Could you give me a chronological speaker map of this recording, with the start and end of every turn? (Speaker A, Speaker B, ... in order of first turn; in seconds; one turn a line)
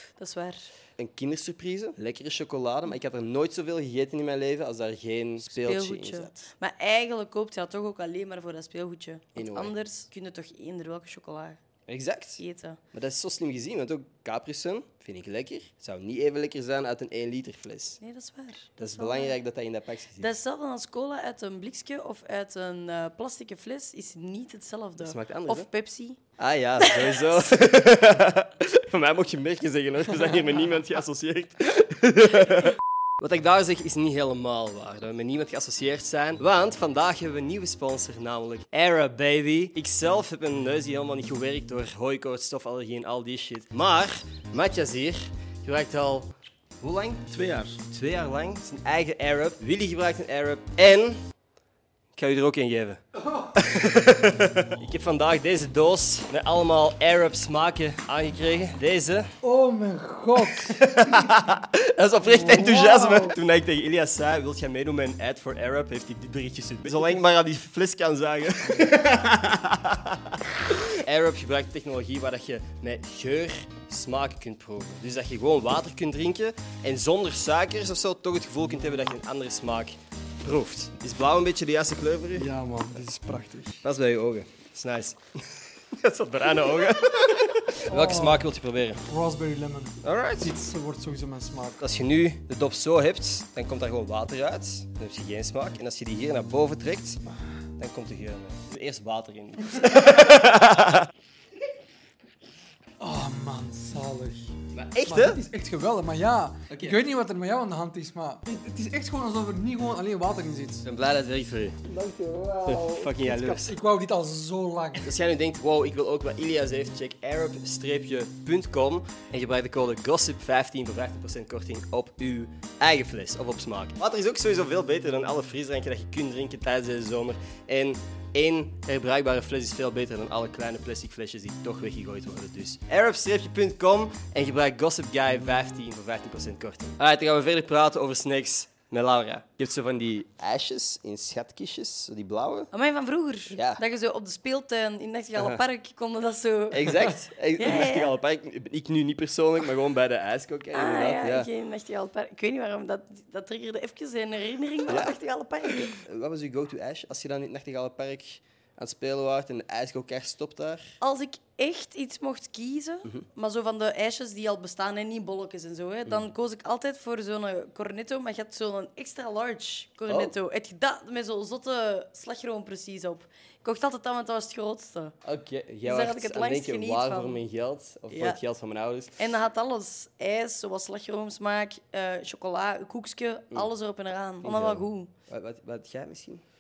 Speaker A: 0.2-0.7
Speaker B: 1.0-6.4
Speaker A: 5.5-11.6
Speaker B: 9.4-9.7
Speaker B: 11.9-12.4
Speaker A: 12.4-12.8
Speaker B: 12.9-18.0
Speaker A: 18.0-19.4
Speaker B: 18.8-20.3
Speaker A: 20.2-26.2
Speaker B: 25.0-25.7
Speaker B: 26.4-51.2
Speaker A: 26.8-27.5
Speaker B: 52.2-53.0
Speaker C: 53.3-53.5
Speaker B: 53.5-59.3
Speaker C: 59.4-61.1
Speaker B: 60.7-82.5
Speaker C: 62.2-63.4
Speaker C: 82.3-83.8
Speaker B: 83.8-89.0
Speaker C: 87.8-88.5
Speaker C: 89.1-91.8
Speaker B: 90.0-90.5
Speaker B: 91.8-97.2
Speaker B: 97.8-101.1
Speaker C: 103.0-110.9
Speaker B: 104.7-105.4
Speaker B: 106.7-107.0
Speaker B: 110.8-113.7
Speaker C: 111.9-115.2
Speaker B: 115.0-142.7
Speaker A: 142.7-148.2
Speaker B: 143.5-143.8
Speaker B: 146.7-151.5
Speaker A: 150.7-155.9
Speaker B: 154.9-155.2
Speaker B: 155.8-160.9
Speaker A: 161.0-175.2
Speaker B: 170.1-170.3
Speaker B: 175.2-179.1
Speaker A: 175.8-177.4
Speaker A: 178.1-178.4
Speaker A: 179.2-185.1
Speaker B: 184.4-186.4